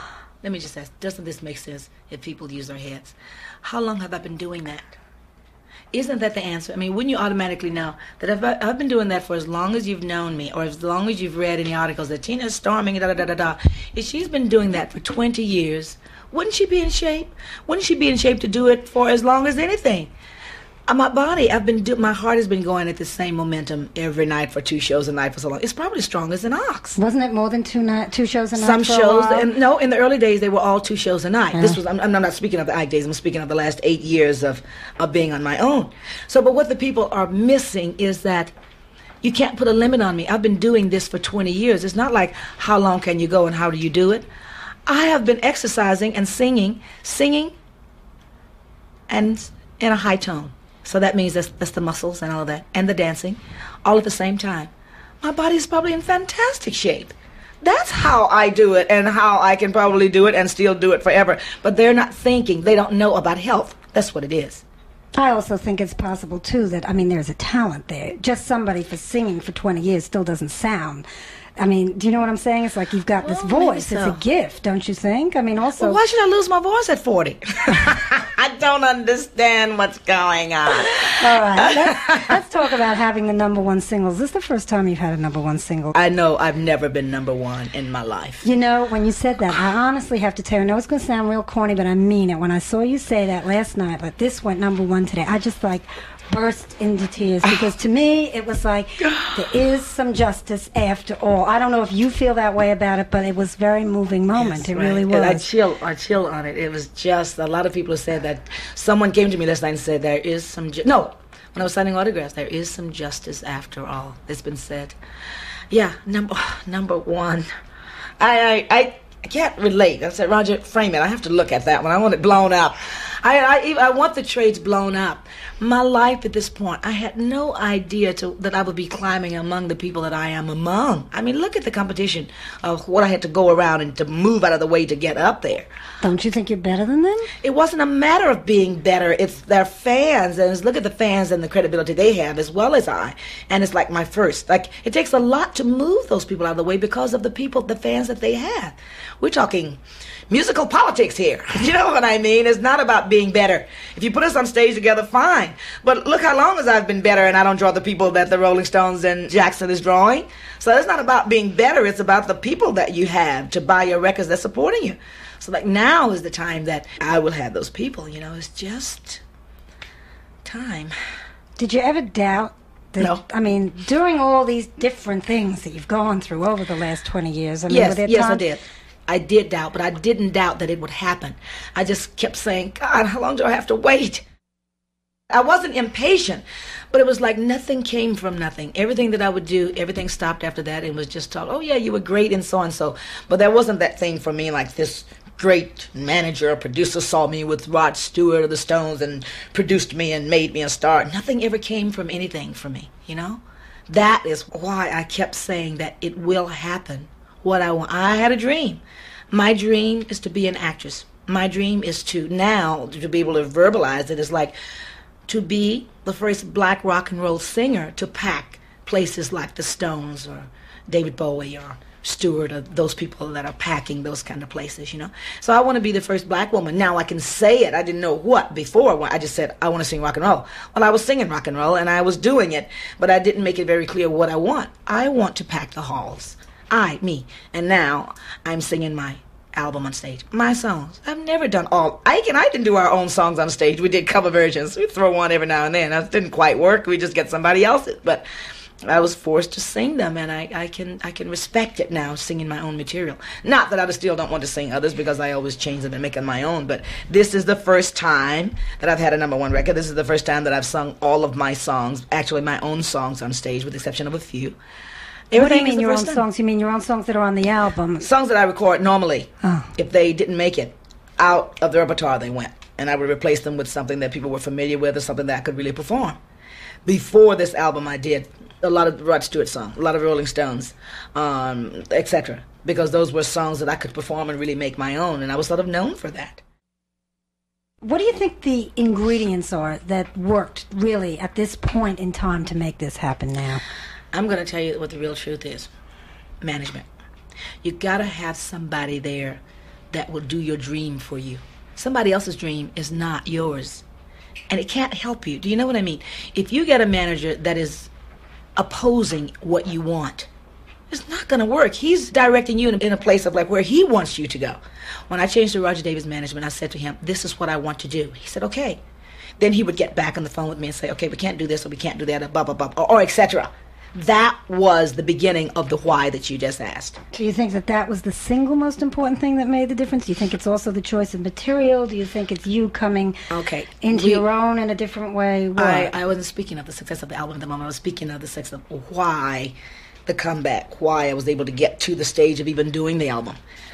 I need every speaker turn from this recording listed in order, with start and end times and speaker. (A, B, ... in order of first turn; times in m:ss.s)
0:00.4-0:05.0 A
0:05.9-0:20.1 A
0:20.9-0:27.0 A
0:27.0-0:29.5 B
0:28.6-0:38.5 A
0:31.5-0:31.8 B
0:39.2-0:44.3 A
0:44.9-0:47.5 A
0:49.1-1:04.6 A
1:05.1-1:11.0 B
1:11.6-1:16.0 B
1:13.2-1:14.2 A
1:15.8-1:22.4 A
1:21.1-1:26.0 B
1:25.9-1:28.4 A
1:28.4-1:45.5 B
1:39.0-1:39.3 A
1:44.4-1:55.0 A
1:55.7-1:57.5 A
1:58.2-2:15.7 A
2:16.0-2:17.3 B
2:17.4-2:49.2 A
2:50.4-2:50.9 A
2:51.6-2:58.4 B
2:57.7-3:04.2 A
3:05.3-3:34.5 A
3:35.3-4:08.2 A
4:08.8-4:24.6 A
4:25.3-4:26.2 A
4:25.3-4:28.1 B
4:28.0-4:36.2 A
4:29.4-4:29.7 B
4:36.8-4:46.4 A
4:47.8-4:53.6 B
4:54.1-4:55.7 A
4:56.4-4:56.9 A
4:57.6-5:03.8 A
5:04.5-5:07.9 A
5:08.6-5:10.3 A
5:10.9-5:18.8 A
5:19.4-5:27.0 A
5:27.1-5:33.2 B
5:33.3-5:34.2 A
5:33.8-5:35.9 B
5:35.6-5:39.5 A
5:40.0-5:43.4 A